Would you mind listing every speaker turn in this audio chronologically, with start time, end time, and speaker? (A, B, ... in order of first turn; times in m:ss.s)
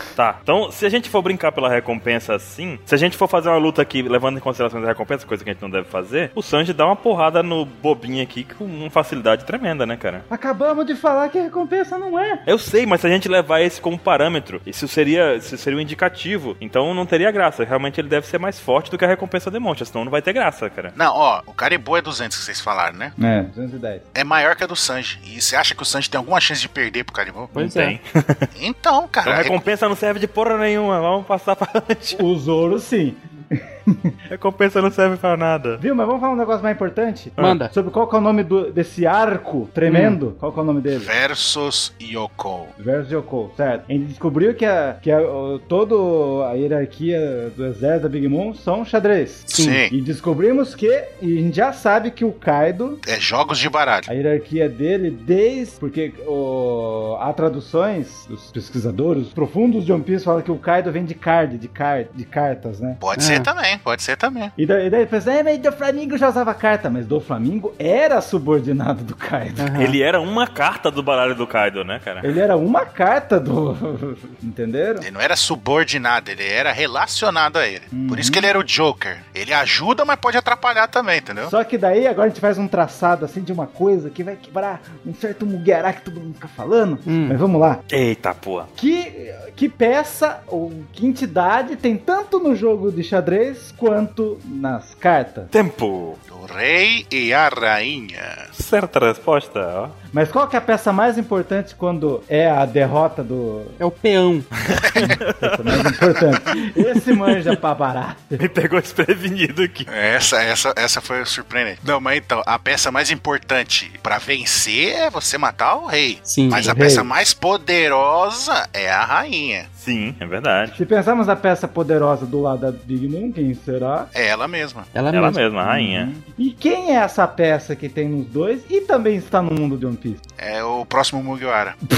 0:00.2-0:10.2 A
0:10.3-0:12.4 B
0:12.5-0:20.9 A
0:21.0-0:23.2 C
0:23.2-0:24.0 B
0:24.1-0:27.5 C
0:27.6-0:28.0 D
0:27.6-0:28.5 A
0:28.5-0:29.6 C
0:29.2-0:32.2 A
0:32.2-0:34.1 B
0:34.3-0:35.8 A
0:35.8-0:41.1 B
0:37.4-0:37.7 D
0:39.9-0:40.2 D
0:40.9-0:42.7 C
0:42.8-0:53.0 B
0:49.5-0:49.9 C
0:49.5-0:49.8 D
0:53.0-0:54.1 C
0:54.1-1:03.0 B
1:03.0-1:04.5 C
1:03.2-1:03.5 D
1:04.6-1:09.8 B
1:09.6-1:10.0 D
1:09.8-1:12.3 A
1:12.2-1:15.1 B
1:15.0-1:21.5 C
1:17.9-1:18.5 B
1:21.4-1:27.8 B
1:27.1-1:27.4 D
1:27.9-1:28.7 A
1:28.8-1:35.5 B
1:35.5-1:36.2 A
1:36.3-1:38.5 C
1:38.6-1:39.9 A
1:40.1-1:43.8 B
1:43.8-1:44.5 D
1:44.7-1:46.0 A
1:44.8-1:45.2 C
1:45.0-1:48.4 B
1:48.4-1:49.9 A
1:49.9-1:59.7 C
1:56.3-1:56.7 D
1:56.5-1:57.1 B
1:59.8-2:00.8 A
2:00.7-2:04.1 B
2:04.1-2:04.9 C
2:04.9-2:05.4 D
2:05.1-2:06.1 A
2:05.6-2:10.2 B
2:10.4-2:11.8 C